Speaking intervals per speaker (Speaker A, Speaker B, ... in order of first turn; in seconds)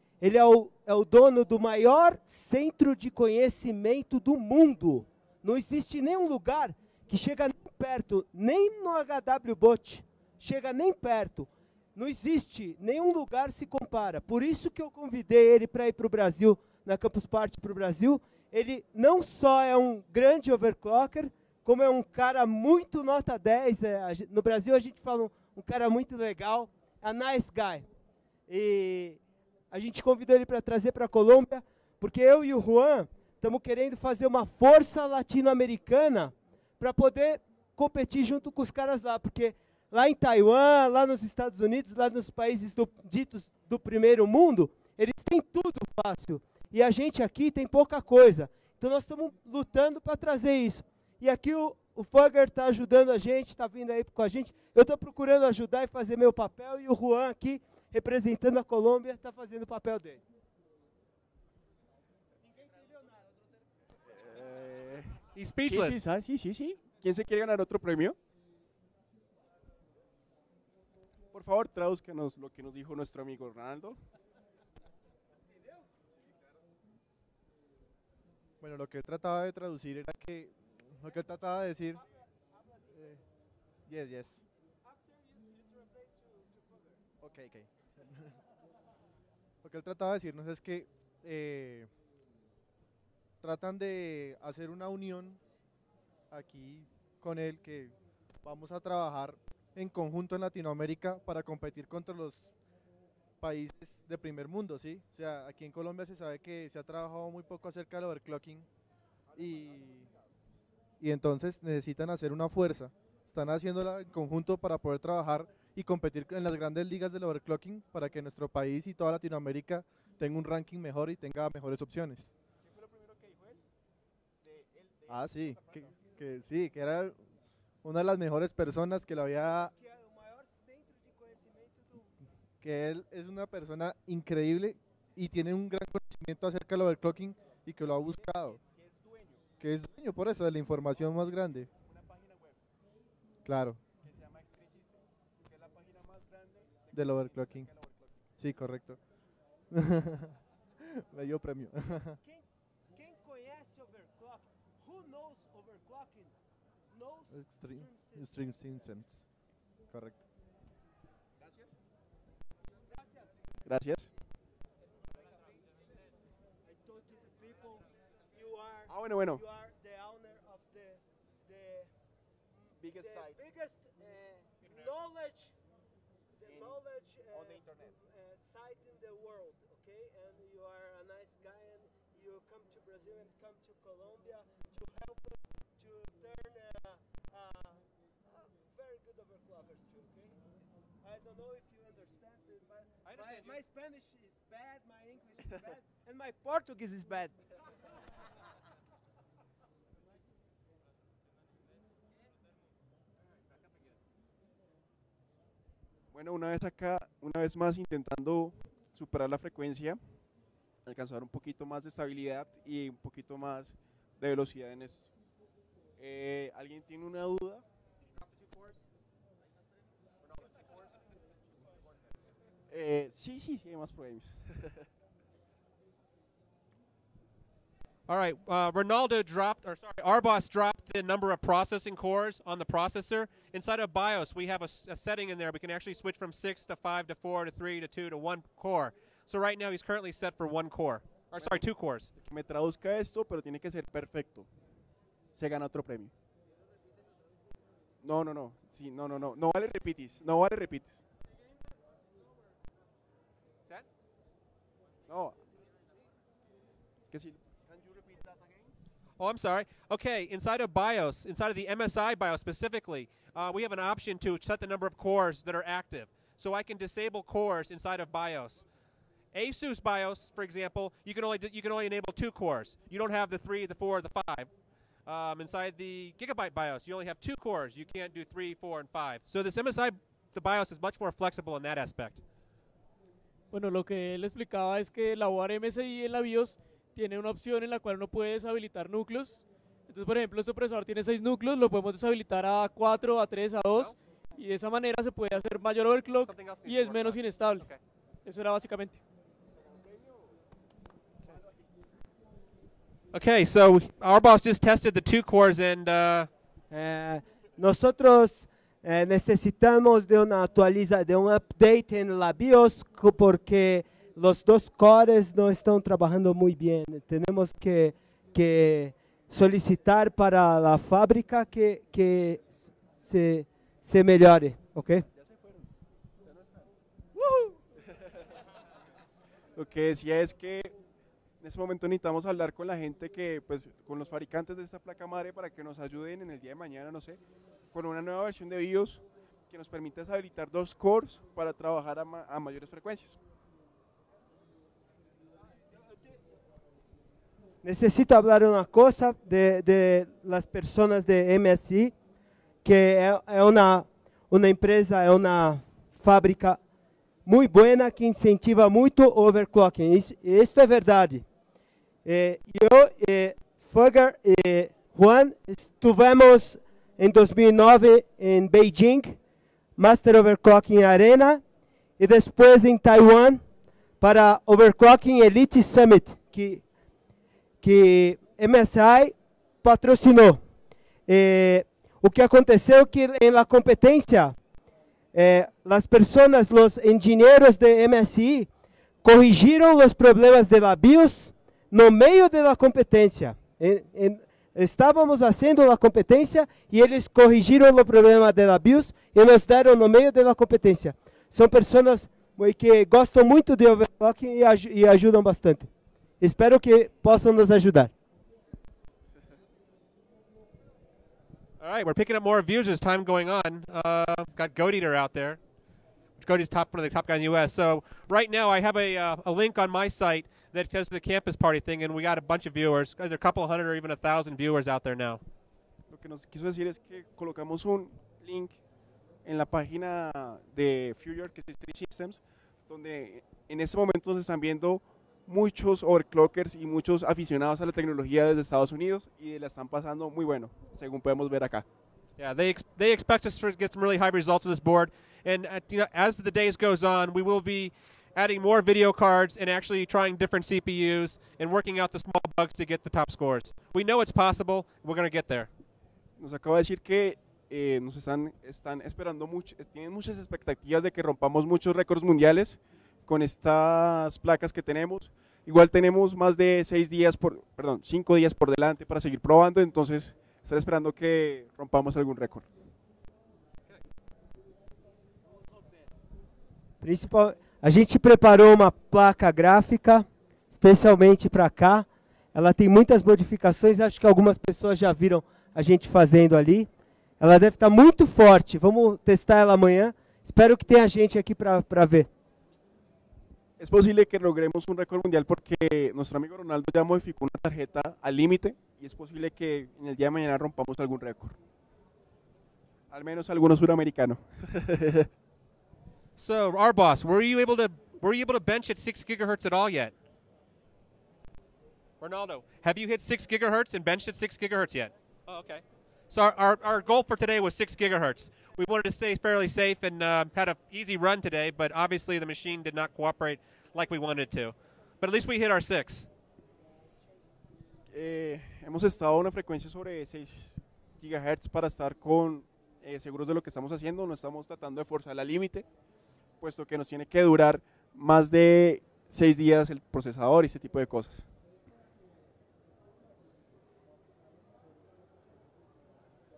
Speaker A: 0.2-27.9, 28.5-29.2, 29.7-60.2, 169.7-171.0, 173.1-174.4, 175.0-175.5, 178.5-179.2, 179.7-184.4, 188.8-189.3, 191.1-192.5, 193.2-195.0, 195.5-197.3, 306.7-322.5, 323.0-325.1, 347.6-351.9, 352.6-356.6, 357.3-361.2, 362.1-369.2, 369.8-371.4, 372.0-373.4, 374.0-376.6, 377.6-380.4, 381.1-384.4, 385.1-388.5, 389.0-405.7, 406.2-407.9, 476.8-486.7, 487.2-492.1
Speaker B: 64.2-68.2, 71.3-74.0, 109.4-110.1, 122.7-123.6, 124.4-125.9, 138.1-139.4, 141.8-142.6, 144.0-148.1, 161.4-161.7, 163.7-164.1, 168.9-169.4, 172.8-173.4, 176.4-178.0, 206.1-210.0, 210.8-215.1, 216.0-217.6, 222.7-224.8, 241.3-241.6, 242.2-244.5, 245.4-246.1, 248.0-251.0, 255.1-255.4, 257.1-258.7, 325.1-325.7, 326.2-326.7, 327.2-327.5, 329.6-330.8, 331.4-337.2, 337.7-343.2, 425.9-428.6, 429.2-441.7, 456.2-472.5, 493.6-501.4, 502.9-505.1, 527.9-535.7, 536.4-541.3
Speaker C: 65.4-66.0, 193.1-193.6, 218.1-218.8, 220.2-221.0, 221.6-221.9, 228.1-242.1, 259.2-268.6, 269.3-274.5, 275.1-282.2, 293.7-293.9, 296.2-297.8, 303.1-306.3, 411.6-415.4, 416.2-425.2, 442.2-455.5, 506.2-509.9, 512.0-526.1
Speaker D: 78.6-82.0, 82.9-83.2, 83.9-84.4, 87.2-88.2, 89.6-91.9, 93.4-95.4, 96.3-102.5, 103.4-108.7, 109.4-110.1, 111.0-122.3, 125.1-127.2, 127.8-129.7, 132.6-138.6, 139.6-141.7, 143.4-143.8, 146.9-147.7, 148.4-149.0, 149.7-150.2, 151.0-152.2, 157.3-159.3, 159.9-160.2
Speaker E: 283.5-297.7, 298.2-299.0